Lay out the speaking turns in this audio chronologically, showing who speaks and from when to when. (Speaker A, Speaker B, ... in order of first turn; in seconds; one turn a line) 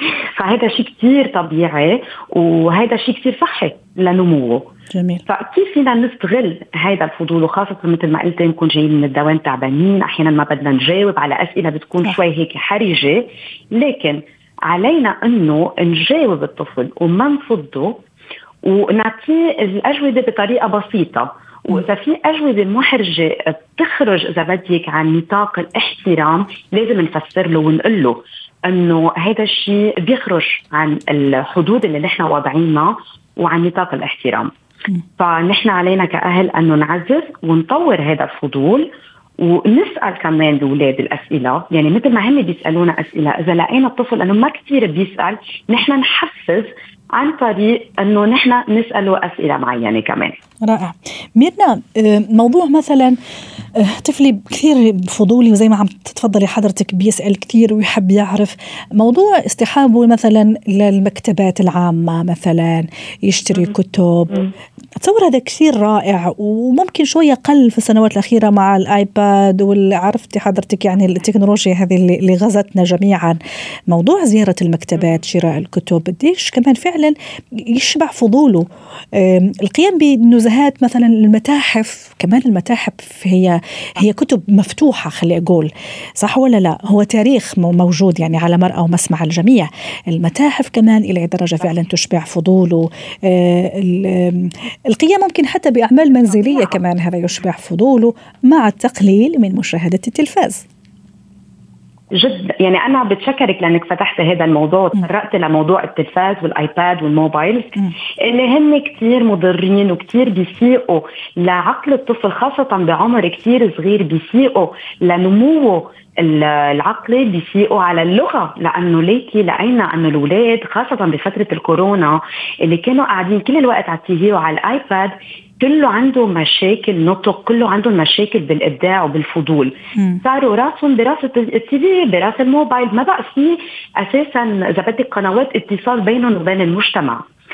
Speaker A: 0.4-4.7
Speaker B: 4.9-5.2
Speaker A: 5.3-18.0
Speaker A: 18.6-34.5
Speaker A: 35.2-50.4
Speaker B: 50.6-53.2
Speaker B: 53.8-64.4
Speaker B: 65.0-100.6
Speaker A: 102.1-137.2
Speaker B: 130.0-130.2